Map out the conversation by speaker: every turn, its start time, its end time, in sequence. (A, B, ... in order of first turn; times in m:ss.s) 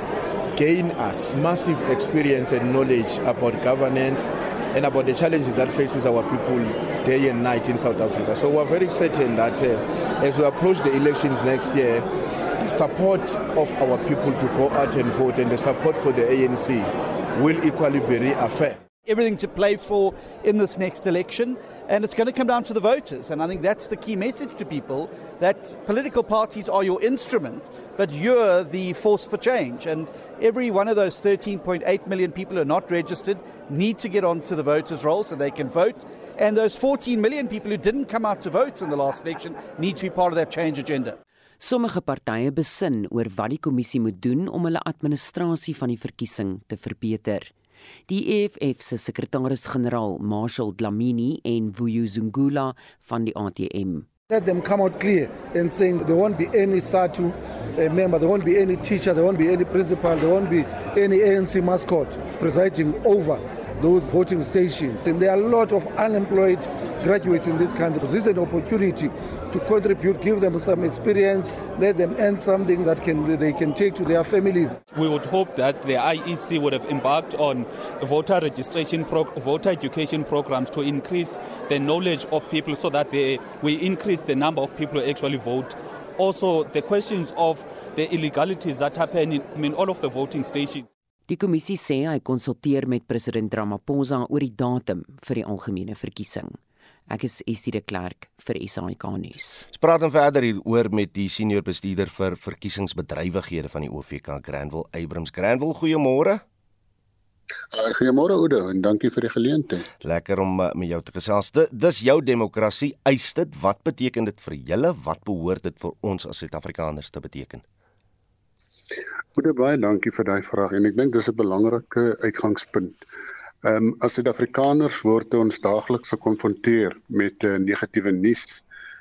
0:00.6-0:18.8 A
0:19.0-0:41.2 B
0:41.6-0:47.5 C
0:48.1-0:54.1 C
0:54.3-1:14.8 D
1:14.9-1:30.9 E
1:31.3-1:39.6 C
1:39.7-1:46.4 F
1:47.7-1:49.8 G
1:50.0-1:57.6 F
1:59.4-2:03.0 G
2:03.6-2:08.6 G